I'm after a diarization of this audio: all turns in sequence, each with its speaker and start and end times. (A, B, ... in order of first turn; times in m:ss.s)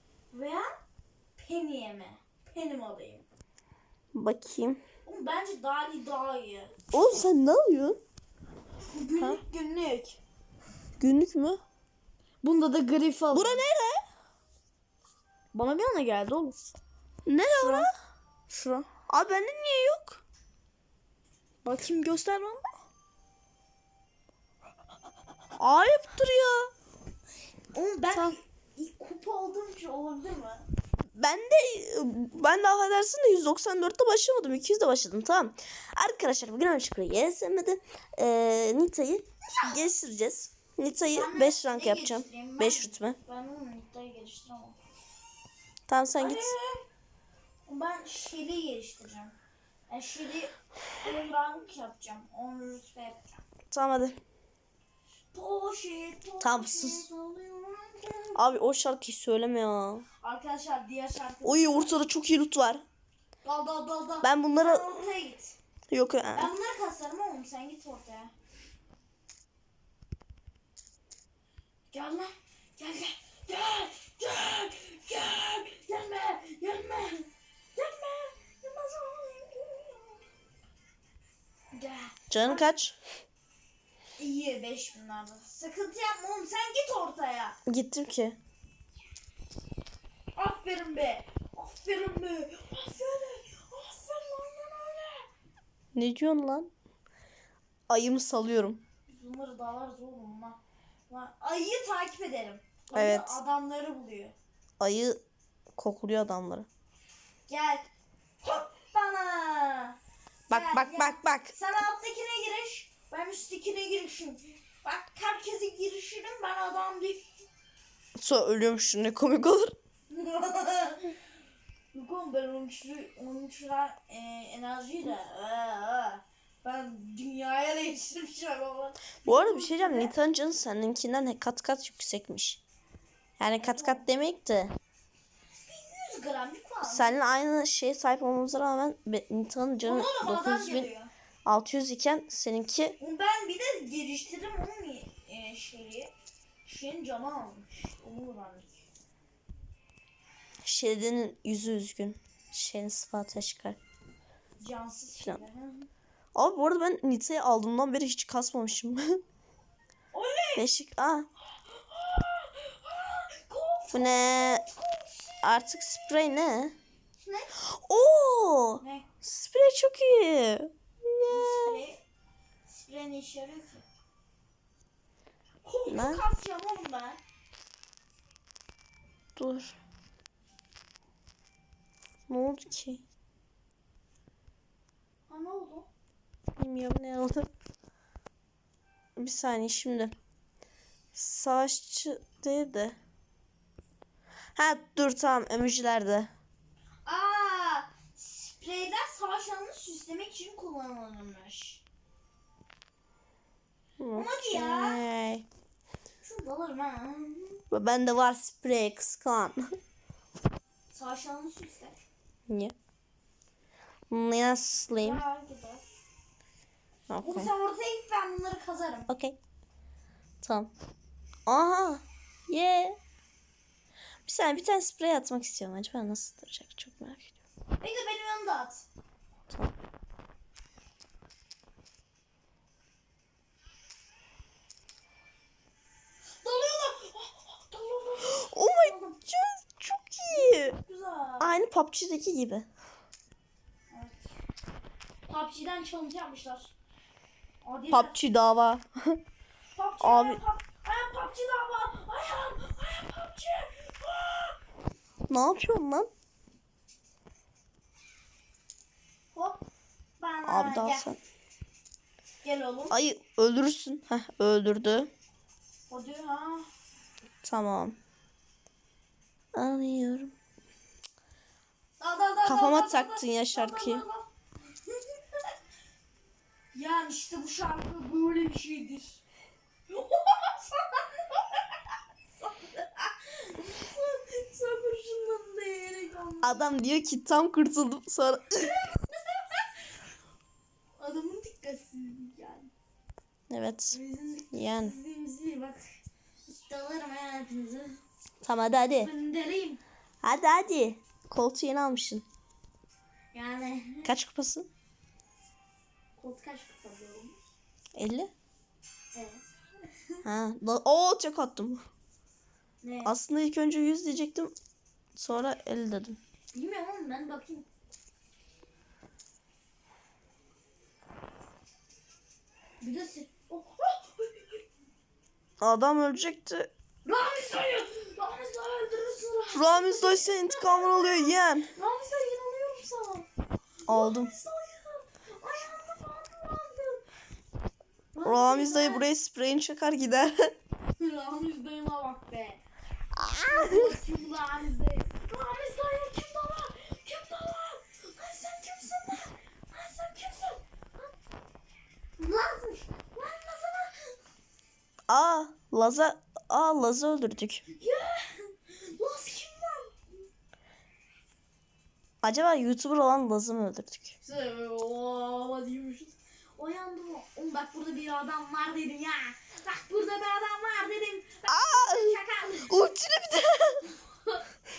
0:00.3-0:00.8 A
0:01.4-0:03.2 A
0:04.1-0:04.8 B
0:05.0-0:06.8 A
0:06.9-0:08.0 B
0:08.9-0:10.2 A
0:11.0-0:11.6 B
0:12.4-0:13.6 A
0:13.3-0:14.0 B
0:15.5-0:16.6 A
0:17.3-0:17.9 B
0:17.6-0:17.9 A
0:18.6-0:20.2 B
0:21.6-0:22.7 A
0:25.6-0:26.7 B
0:27.7-0:30.7 A
0:31.2-0:43.2 B
0:41.1-0:44.8 A
0:45.9-0:46.5 B
0:46.2-0:46.8 A
0:47.7-0:49.4 A
0:49.9-0:53.4 A
0:53.7-0:54.2 B
0:55.3-0:58.4 A
0:56.4-0:57.1 B
0:58.4-1:00.0 B
1:00.2-1:02.0 A
1:01.4-1:02.8 B
1:03.4-1:05.6 A
1:04.2-1:05.0 B
1:05.9-1:06.5 B
1:06.4-1:08.3 A
1:11.9-1:20.2 A
1:21.7-1:22.7 A
1:22.3-1:23.0 B
1:24.2-1:27.6 A
1:27.7-1:28.4 B
1:30.4-1:35.3 A
1:36.0-1:36.7 B
1:37.9-1:38.8 B
1:39.1-1:44.4 A
1:42.9-1:43.4 B
1:44.8-1:45.2 B
1:45.8-1:46.7 B
1:47.5-1:47.8 A
1:48.4-1:50.0 A
1:50.5-1:57.5 A
1:50.5-1:51.5 B
1:58.2-1:59.7 B
2:00.1-2:01.1 A
2:01.9-2:10.2 A
2:09.2-2:12.6 B
2:13.4-2:14.7 B
2:13.6-2:14.0 A
2:15.7-2:17.1 A
2:16.8-2:20.9 B
2:19.8-2:21.1 A
2:21.5-2:23.0 B
2:23.0-2:26.1 A
2:26.6-2:28.8 A
2:30.6-2:33.8 B
2:34.6-2:35.9 A
2:36.4-2:39.2 B
2:40.1-2:40.6 A
2:40.6-2:41.3 B
2:41.7-2:45.5 A
2:43.9-2:44.6 B
2:45.4-2:46.8 B
2:47.2-2:47.5 A
2:47.8-2:51.8 B
2:48.8-2:49.1 A
2:51.3-2:52.0 A
2:52.7-2:53.8 A
2:55.6-2:57.2 A
2:55.9-2:56.2 B
2:59.4-2:59.8 B
3:02.3-3:03.0 B
3:05.3-3:05.9 A
3:06.6-3:07.5 B
3:09.2-3:10.1 B
3:11.1-3:13.0 B
3:14.6-3:16.3 B
3:17.0-3:21.8 A
3:24.0-3:25.5 B
3:24.2-3:25.0 A
3:26.2-3:27.6 A
3:27.7-3:29.6 B
3:30.9-3:32.0 A
3:32.5-3:32.7 B
3:34.1-3:35.2 B
3:34.9-3:35.9 A
3:37.1-3:37.5 B
3:37.2-3:39.1 A
3:39.1-3:39.4 B
3:40.4-3:40.7 B
3:41.5-3:43.0 B
3:44.2-3:47.3 B
3:47.8-3:48.8 A
3:56.4-3:59.2 A
3:58.2-4:00.8 B
4:00.3-4:01.6 A
4:01.4-4:02.7 B
4:03.9-4:04.3 A
4:05.3-4:06.7 A
4:07.6-4:08.2 A
4:07.9-4:09.2 B
4:09.8-4:14.6 A
4:10.0-4:10.4 B
4:15.3-4:16.1 B
4:19.3-4:19.6 A
4:20.2-4:21.1 A
4:20.5-4:21.2 B
4:22.4-4:23.0 A
4:22.9-4:25.1 B
4:25.9-4:26.7 A
4:27.4-4:28.0 B
4:29.5-4:30.3 B
4:32.0-4:34.3 A
4:32.4-4:34.0 B
4:36.7-4:39.2 A
4:39.9-4:41.8 A
4:42.4-4:46.7 A
4:46.4-4:48.7 B
4:49.0-4:49.8 A
4:51.0-4:52.7 A
4:53.5-4:54.0 B
4:53.9-4:55.9 A
4:54.5-4:55.0 B
4:56.5-4:58.0 A
4:58.4-4:59.1 B
4:59.0-4:59.8 A
5:00.2-5:02.2 B
5:03.3-5:04.1 A
5:04.0-5:04.7 B
5:06.2-5:07.4 A
5:08.0-5:08.3 B
5:09.1-5:09.4 A
5:10.2-5:11.8 B
5:12.8-5:13.1 A
5:13.0-5:14.5 B
5:15.2-5:16.2 B
5:16.5-5:17.7 A
5:22.8-5:24.6 A
5:25.6-5:26.7 B
5:27.0-5:33.3 A
5:29.5-5:31.7 B
5:33.9-5:37.0 A
5:33.9-5:34.3 B
5:38.1-5:39.1 A
5:38.2-5:40.5 B
5:41.0-5:42.6 A
5:43.2-5:43.9 B
5:43.3-5:51.1 A
5:52.2-5:54.1 A
5:55.1-5:57.6 B
5:57.7-6:00.0 A
6:02.2-6:04.2 B
6:04.2-6:12.8 A
6:11.5-6:12.2 B
6:12.7-6:13.8 B